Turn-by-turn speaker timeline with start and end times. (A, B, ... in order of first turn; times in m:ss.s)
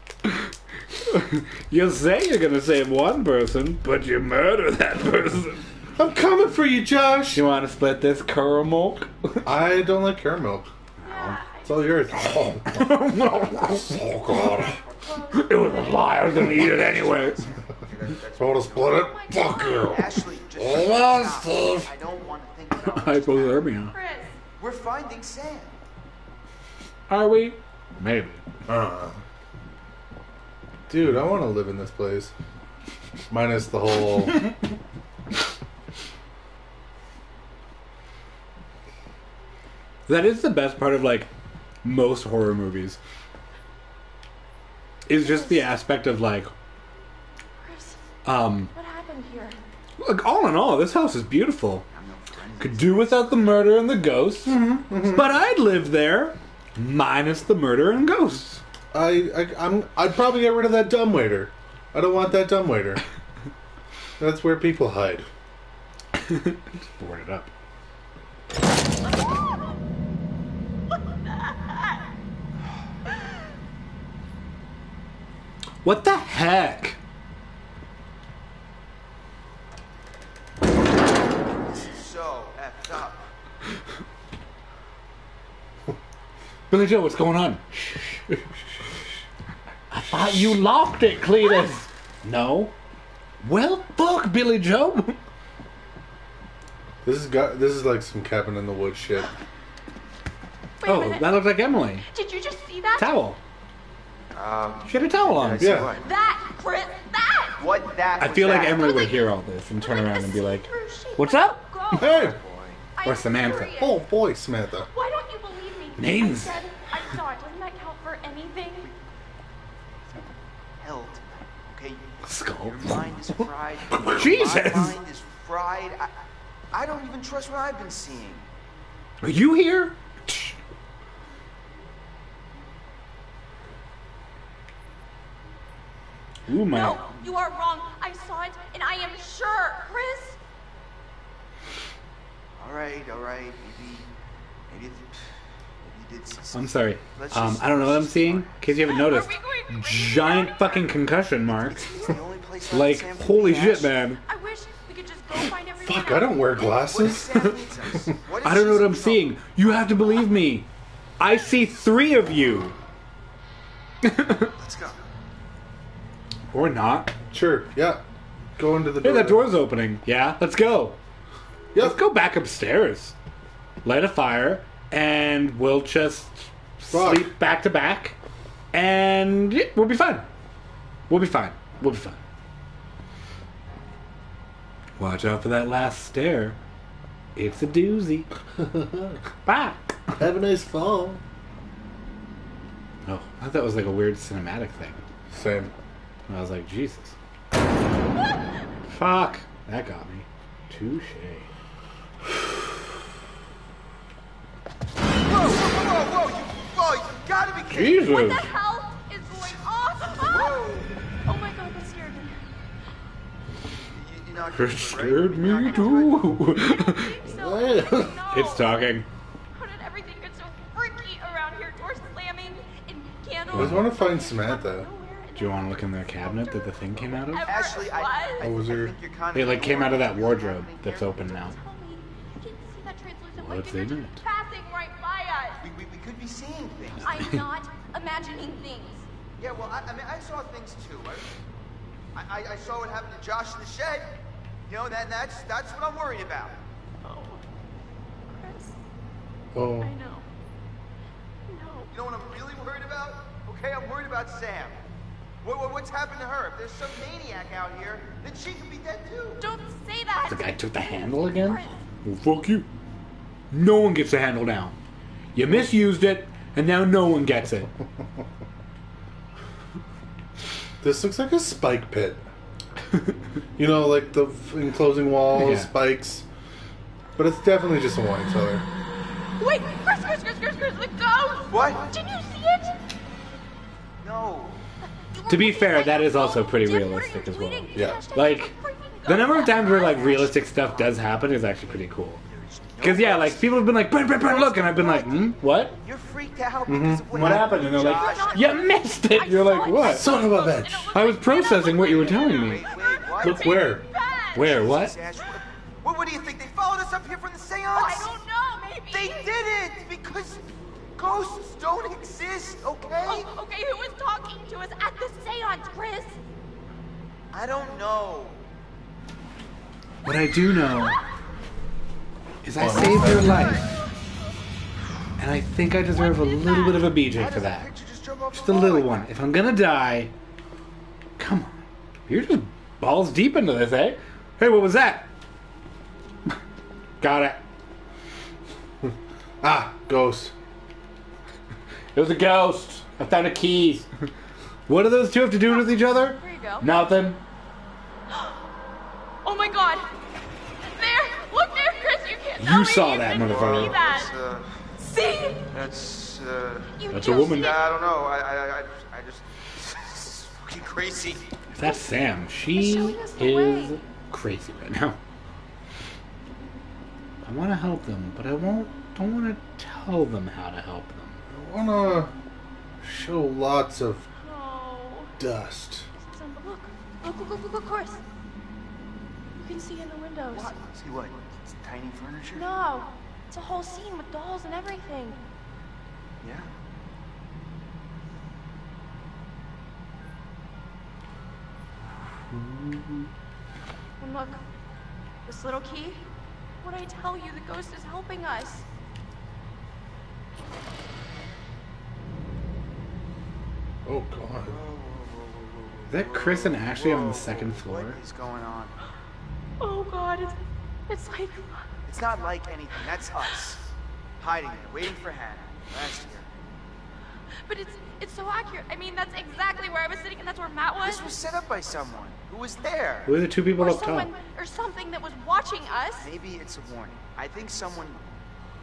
0:00.2-0:05.6 A
0:05.9-0:07.4 B
0:07.3-0:09.4 A
0:09.4-0:10.7 B
0:11.0-0:11.4 A
0:11.0-0:12.5 C
0:11.6-0:14.8 B
0:12.7-0:14.1 A
0:14.3-0:16.4 C
0:15.3-0:17.4 A
0:15.6-0:19.1 D
0:18.4-0:21.9 B
0:18.8-0:20.0 C
0:19.8-0:23.7 D
0:22.9-0:23.9 A
0:23.9-0:24.4 C
0:24.6-0:25.8 D
0:27.1-0:28.4 A
0:28.6-0:29.2 B
0:30.9-0:32.3 B
0:33.3-0:34.5 B
0:40.1-0:41.3 A
0:41.8-0:43.0 A
0:45.1-0:46.5 A
0:45.1-0:45.8 C
0:47.6-0:48.0 C
0:48.2-0:48.7 A
0:48.7-0:49.6 C
0:50.0-0:51.9 A
0:51.9-0:53.6 D
0:52.6-0:58.6 A
0:54.4-0:55.3 B
0:58.9-1:03.0 B
1:04.2-1:05.3 B
1:06.3-1:07.5 A
1:09.2-1:09.7 C
1:10.9-1:12.0 C
1:15.8-1:17.0 A
1:21.7-1:23.3 D
1:26.7-1:28.4 A
1:29.9-1:32.7 A
1:30.2-1:30.5 B
1:33.4-1:35.2 A
1:37.0-1:39.3 B
1:40.8-1:41.4 C
1:40.8-1:42.1 A
1:42.0-1:43.2 C
1:43.0-1:43.4 A
1:44.3-1:46.1 D
1:44.9-1:45.9 A
1:45.6-1:45.9 B
1:46.0-1:47.7 C
1:47.6-1:49.0 D
1:48.2-1:51.6 A
1:48.3-1:52.2 C
1:51.9-1:52.8 D
1:52.0-1:52.4 B
1:52.9-1:54.1 C
1:53.0-1:53.8 A
1:53.7-1:54.9 B
1:54.9-1:58.9 C
1:56.0-1:56.6 A
2:00.8-2:06.1 D
2:02.2-2:03.1 A
2:04.0-2:05.0 A
2:06.7-2:08.5 D
2:09.2-2:10.6 A
2:16.5-2:17.0 A
2:16.7-2:20.4 C
2:22.6-2:24.1 D
2:24.7-2:25.2 D
2:25.8-2:29.0 D
2:26.5-2:31.9 A
2:28.9-2:30.9 C
2:31.5-2:34.0 D
2:32.7-2:34.2 A
2:34.2-2:36.8 C
2:35.8-2:37.5 B
2:36.8-2:39.4 D
2:38.4-2:40.7 A
2:41.2-2:42.8 A
2:44.0-2:44.5 A
2:44.6-2:45.0 D
2:46.5-2:47.2 A
2:47.3-2:48.0 B
2:48.6-2:49.5 B
2:49.0-2:51.0 A
2:51.8-2:53.1 A
2:53.8-2:58.2 A
2:56.9-2:57.3 B
2:58.7-3:00.3 A
3:01.1-3:02.2 A
3:05.0-3:06.6 A
3:07.4-3:08.3 A
3:08.6-3:09.2 B
3:09.4-3:10.3 A
3:10.2-3:11.2 B
3:13.1-3:15.0 A
3:15.3-3:15.7 B
3:16.3-3:17.1 A
3:18.9-3:21.5 A
3:25.3-3:28.1 D
3:27.7-3:28.5 A
3:28.0-3:30.6 C
3:29.5-3:30.9 D
3:31.2-3:32.4 C
3:33.8-3:36.5 D
3:34.5-3:37.2 A
3:36.6-3:38.9 C
3:37.3-3:38.2 B
3:38.3-3:39.1 A
3:39.5-3:48.4 C
3:43.5-3:43.9 A
3:43.5-3:44.9 B
3:45.4-3:47.5 A
3:47.4-3:51.4 D
3:48.4-3:49.0 B
3:49.3-3:51.6 A
3:51.4-3:55.6 C
3:53.4-3:54.2 A
3:55.6-3:57.3 D
3:57.0-3:59.1 C
3:59.4-4:01.4 D
4:02.1-4:04.1 D
4:04.7-4:06.6 D
4:07.0-4:07.4 C
4:08.3-4:08.7 C
4:09.5-4:09.9 B
4:09.8-4:10.3 C
4:11.5-4:11.9 C
4:11.9-4:14.8 D
4:15.4-4:19.4 D
4:19.4-4:21.8 C
4:20.3-4:22.7 A
4:23.5-4:24.8 A
4:25.4-4:27.7 A
4:30.8-4:32.3 B
4:33.6-4:36.3 B
4:35.3-4:35.7 A
4:37.2-4:38.7 B
4:39.4-4:42.8 C
4:41.5-4:42.0 D
4:44.0-4:44.6 D
4:45.1-4:50.3 C
4:45.3-4:48.5 A
4:47.7-4:48.0 B
4:49.1-4:52.2 A
4:49.8-4:51.1 D
4:52.3-4:54.4 D
4:52.8-4:55.8 A
4:54.3-4:55.3 C
4:55.8-4:58.6 D
4:56.6-4:57.4 B
4:57.1-5:00.1 A
4:57.6-5:04.4 C
4:59.8-5:00.9 B
5:00.9-5:02.6 A
5:01.8-5:03.6 D
5:03.2-5:03.8 B
5:04.4-5:04.9 A
5:04.4-5:08.2 D
5:07.7-5:09.3 C
5:08.9-5:13.3 D
5:13.0-5:16.2 C
5:17.3-5:18.5 D
5:20.0-5:21.0 A
5:22.4-5:23.7 A
5:22.6-5:23.6 B
5:22.7-5:23.7 D
5:25.2-5:27.7 A
5:25.9-5:27.0 C
5:27.0-5:29.1 D
5:28.3-5:30.1 A
5:31.2-5:35.1 A
5:37.0-5:37.4 A
5:38.8-5:40.3 B
5:41.9-5:43.9 A
5:44.7-5:47.2 A
5:45.5-5:46.7 C
5:49.2-5:49.9 C
5:50.6-5:54.2 C
5:52.4-5:53.8 A
5:53.0-5:54.6 D
5:54.8-5:55.5 C
5:55.5-6:01.3 D
5:56.8-5:57.8 C
5:56.9-5:57.6 A
6:01.5-6:05.0 A
6:02.5-6:03.8 C
6:07.2-6:11.2 A
6:11.3-6:12.1 B
6:12.8-6:14.1 B
6:14.2-6:15.1 C
6:15.2-6:15.9 B
6:16.0-6:18.0 C
6:19.4-6:20.5 C
6:20.3-6:22.4 D
6:22.3-6:25.2 C
6:26.2-6:26.5 D
6:32.3-6:32.7 A
6:34.0-6:34.4 C
6:35.3-6:36.0 C
6:36.6-6:38.6 C
6:43.8-6:44.6 B
6:44.4-6:48.8 D
6:45.9-6:48.0 A
6:49.6-6:51.6 C
6:51.9-6:53.6 D
6:54.2-6:56.3 D
6:57.5-7:01.1 C
7:00.8-7:03.2 D
7:03.1-7:04.1 A
7:03.6-7:06.1 C
7:06.0-7:08.0 D